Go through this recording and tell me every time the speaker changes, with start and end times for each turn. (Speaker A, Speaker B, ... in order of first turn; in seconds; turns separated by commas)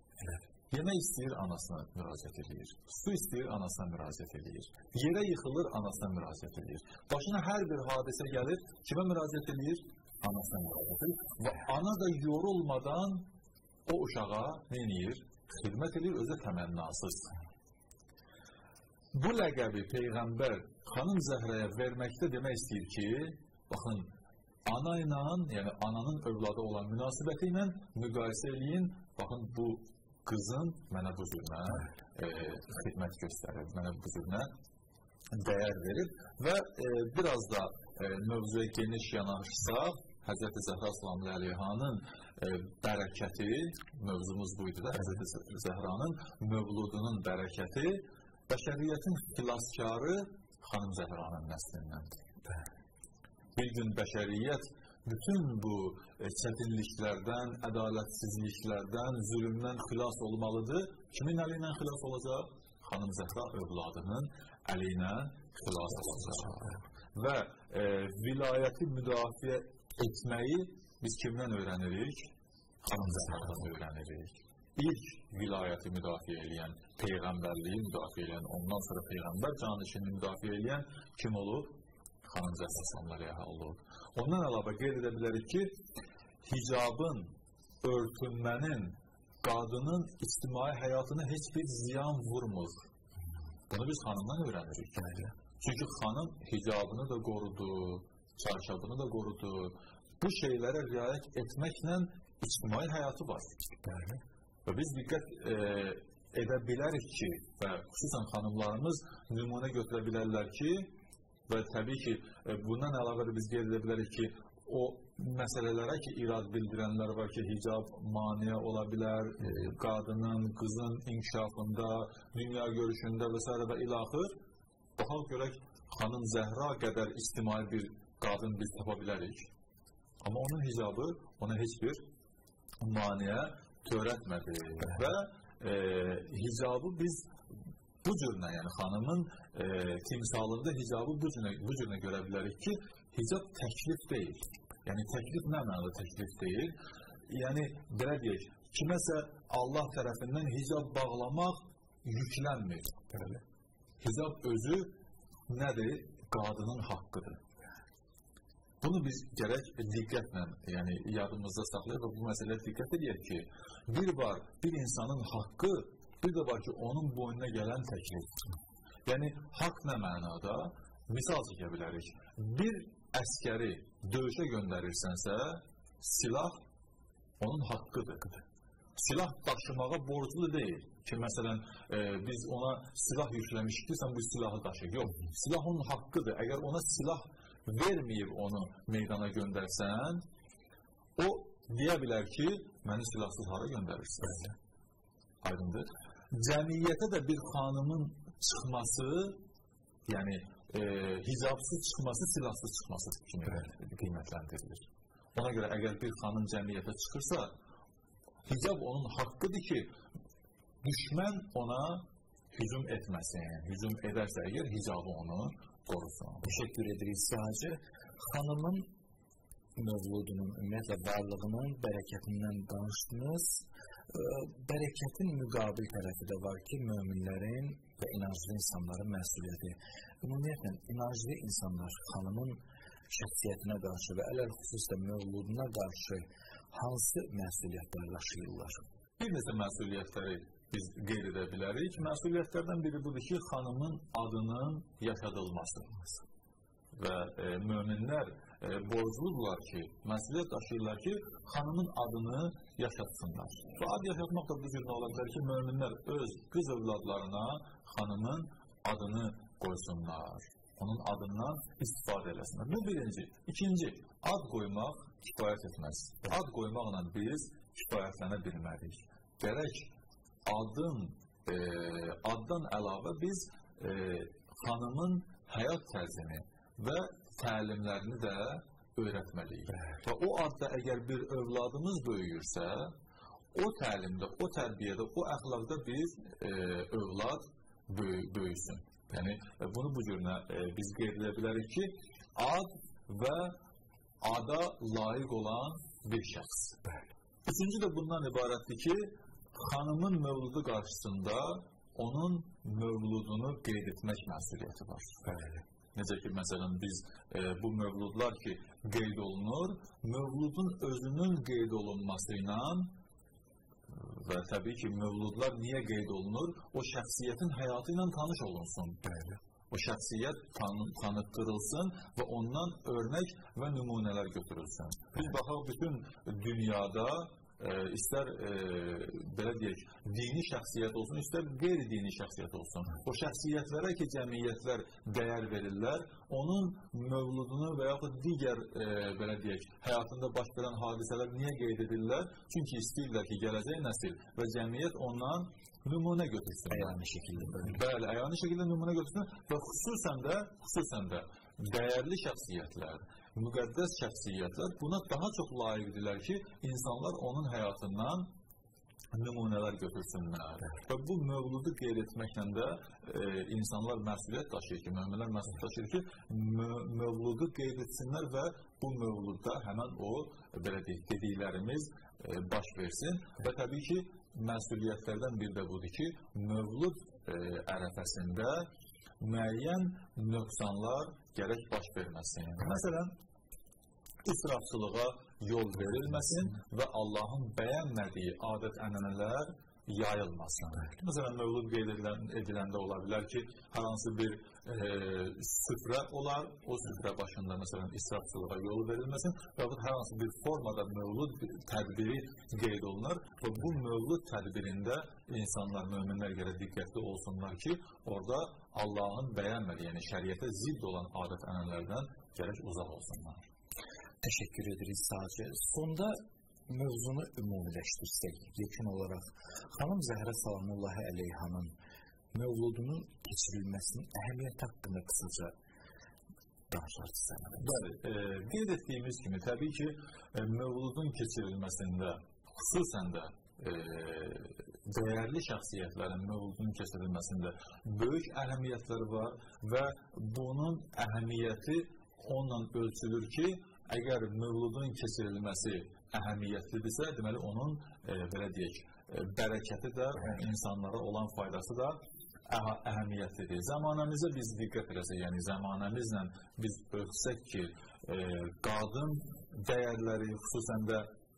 Speaker A: 0.7-13.3, Speaker A: 13.9-17.4, Speaker A: 19.1-24.1, Speaker A: 24.7-34.5, Speaker A: 35.3-52.2, Speaker A: 53.6-72.3, Speaker A: 72.8-85.8, Speaker A: 86.4-92.8, Speaker A: 93.7-95.1, Speaker B: 95.0-95.3, Speaker A: 95.6-103.6, Speaker B: 103.8-104.2, Speaker A: 104.7-110.9, Speaker A: 111.5-124.4, Speaker A: 125.0-129.5, Speaker A: 130.2-132.0, Speaker A: 132.8-137.4, Speaker A: 138.0-146.8, Speaker A: 147.3-153.0, Speaker B: 153.1-153.4, Speaker A: 154.0-155.0, Speaker A: 155.5-157.4, Speaker A: 158.8-168.4, Speaker A: 169.1-176.6, Speaker A: 177.4-178.4, Speaker A: 179.0-190.2, Speaker A: 191.2-194.5, Speaker A: 195.4-199.4, Speaker A: 200.1-207.5, Speaker A: 208.4-209.9, Speaker A: 210.8-216.5, Speaker B: 216.4-218.9, Speaker B: 219.8-238.8, Speaker A: 239.2-246.0, Speaker A: 246.9-269.9, Speaker A: 270.5-282.9, Speaker A: 283.6-293.6, Speaker A: 294.2-296.8, Speaker A: 297.4-305.2, Speaker B: 305.2-305.6, Speaker A: 305.9-312.9, Speaker A: 313.9-319.1, Speaker B: 319.1-319.4, Speaker A: 319.7-358.3, Speaker B: 346.7-347.8, Speaker A: 359.1-383.2, Speaker A: 384.2-413.4, Speaker B: 414.2-421.7, Speaker B: 422.3-425.6, Speaker B: 426.7-427.8, Speaker A: 427.6-461.1